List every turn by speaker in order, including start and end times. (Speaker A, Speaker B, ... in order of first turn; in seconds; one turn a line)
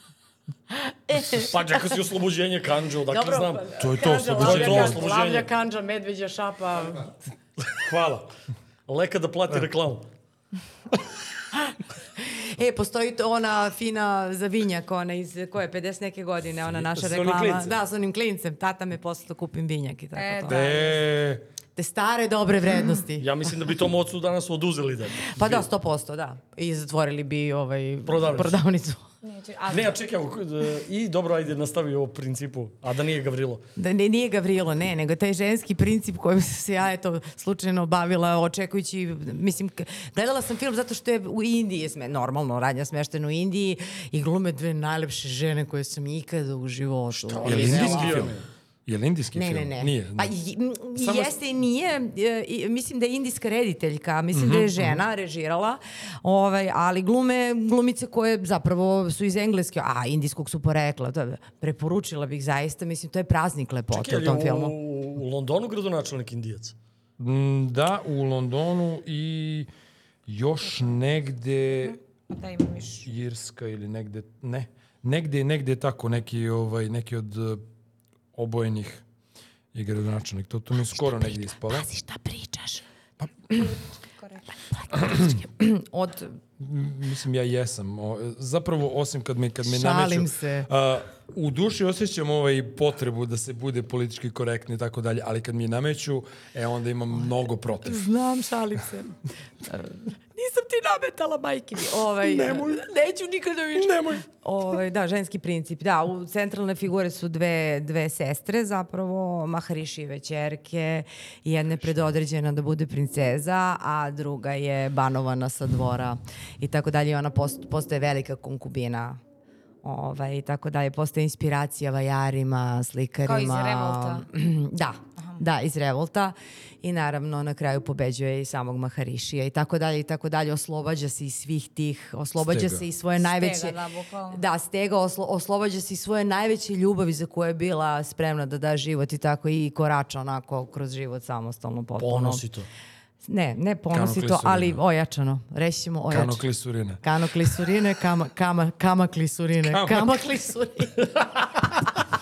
Speaker A: 0.7-1.9
Speaker B: 1.3-3.7
Speaker A: 3.1-7.1
Speaker C: 3.8-5.1
Speaker B: 4.3-5.5
Speaker C: 7.8-8.3
Speaker B: 8.9-10.1
Speaker A: 11.5-20.7
Speaker C: 16.7-17.8
Speaker D: 20.1-21.0
Speaker C: 20.5-21.4
Speaker A: 21.8-23.3
Speaker B: 23.2-25.6
Speaker A: 25.2-29.0
Speaker B: 28.0-28.6
Speaker D: 29.2-30.0
Speaker B: 29.7-33.6
Speaker A: 33.8-48.3
Speaker B: 47.1-48.4
Speaker C: 47.4-50.3
Speaker A: 49.3-64.7
Speaker C: 54.3-55.0
Speaker B: 63.9-66.7
Speaker C: 67.2-69.7
Speaker C: 70.3-72.0
Speaker D: 71.8-73.1
Speaker C: 73.0-77.6
Speaker C: 78.3-79.0
Speaker C: 79.7-81.9
Speaker A: 81.1-82.8
Speaker D: 83.5-84.5
Speaker A: 84.9-86.4
Speaker C: 84.9-85.4
Speaker C: 86.6-98.1
Speaker A: 89.6-90.7
Speaker A: 97.8-119.2
Speaker C: 102.2-102.9
Speaker C: 103.7-104.2
Speaker A: 119.8-133.8
Speaker D: 123.2-124.2
Speaker C: 132.4-132.8
Speaker D: 133.2-134.4
Speaker A: 134.3-142.4
Speaker B: 142.0-142.7
Speaker A: 143.2-146.4
Speaker C: 143.9-144.8
Speaker C: 146.1-147.5
Speaker A: 147.0-151.8
Speaker C: 149.6-150.2